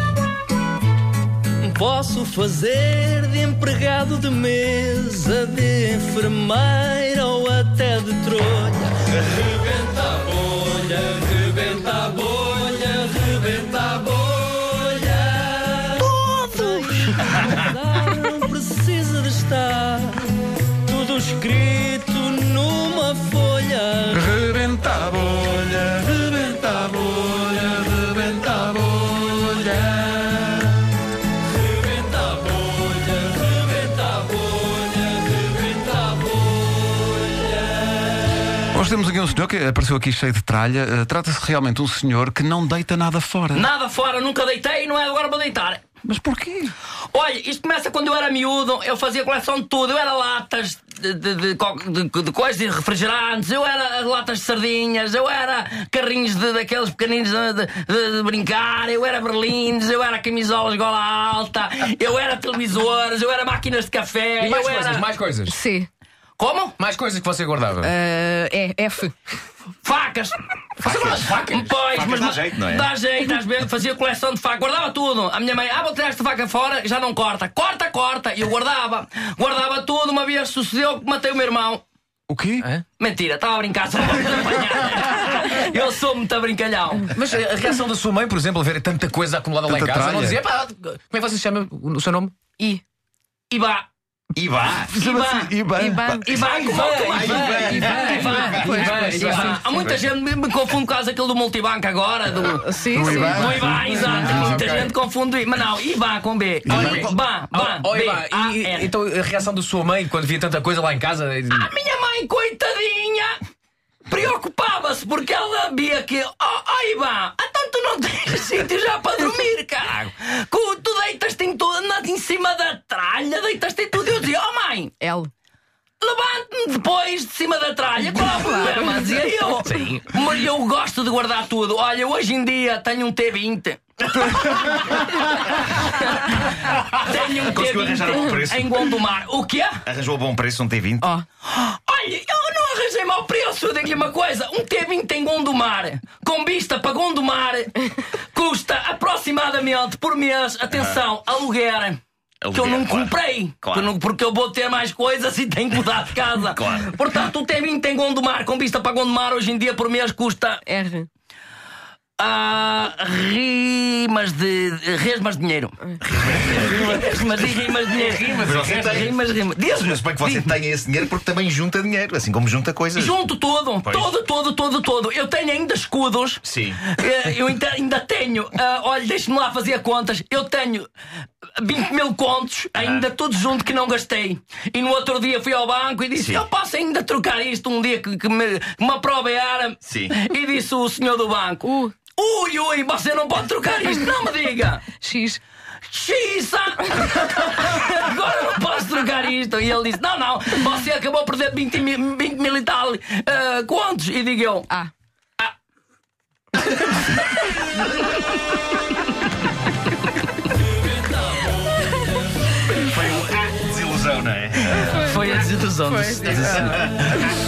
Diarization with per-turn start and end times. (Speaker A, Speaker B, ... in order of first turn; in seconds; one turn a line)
Speaker A: 1.6-24.2
Speaker B: 24.1-30.0
Speaker A: 31.8-37.6
Speaker B: 38.7-43.7
Speaker A: 43.5-45.9
Speaker B: 46.0-46.7
Speaker A: 47.1-65.1
Speaker C: 64.4-65.6
Speaker D: 65.5-65.9
Speaker A: 66.4-66.8
Speaker C: 66.8-67.9
Speaker D: 67.8-69.1
Speaker A: 69.8-81.8
Speaker C: 70.9-71.8
Speaker E: 70.9-71.3
Speaker E: 71.9-72.9
Speaker B: 82.3-82.7
Speaker A: 83.0-87.1
Speaker C: 87.1-92.6
Speaker B: 89.7-90.4
Speaker D: 92.6-92.8
Speaker A: 93.5-93.9
Speaker E: 94.3-95.0
Speaker A: 94.9-95.5
Speaker B: 94.9-96.5
Speaker D: 95.7-96.4
Speaker A: 96.2-108.9
Speaker C: 96.4-100.0
Speaker E: 97.0-98.7
Speaker D: 97.4-99.9
Speaker D: 102.5-103.5
Speaker B: 102.9-104.7
Speaker C: 103.2-104.9
Speaker B: 106.7-107.0
Speaker C: 106.7-111.7
Speaker A: 111.5-113.4
Speaker A: 114.1-125.0
Speaker D: 125.0-125.3
Speaker A: 126.0-139.8
Speaker D: 128.2-129.2
Speaker C: 129.5-130.1
Speaker E: 137.3-138.9
Speaker E: 139.8-141.1
Speaker A: 141.4-152.0
Speaker E: 150.7-151.0
Speaker E: 152.4-153.9
Speaker A: 152.5-160.7
Speaker E: 156.6-156.9
Speaker D: 160.7-161.1
Speaker A: 162.2-170.5
Speaker E: 166.1-166.9
Speaker C: 166.7-167.0
Speaker C: 167.8-169.0
Speaker E: 168.4-173.2
Speaker A: 172.9-180.9
Speaker E: 173.8-174.1
Speaker E: 176.4-176.8
Speaker A: 181.6-194.9
Speaker E: 182.8-183.0
Speaker E: 186.2-186.4
Speaker E: 189.9-190.1
Speaker D: 191.7-191.9
Speaker D: 195.0-195.4
Speaker A: 195.9-204.7
Speaker A: 210.6-212.1
Speaker E: 212.8-215.2
Speaker A: 214.7-216.9
Speaker D: 214.9-217.3
Speaker E: 216.2-217.2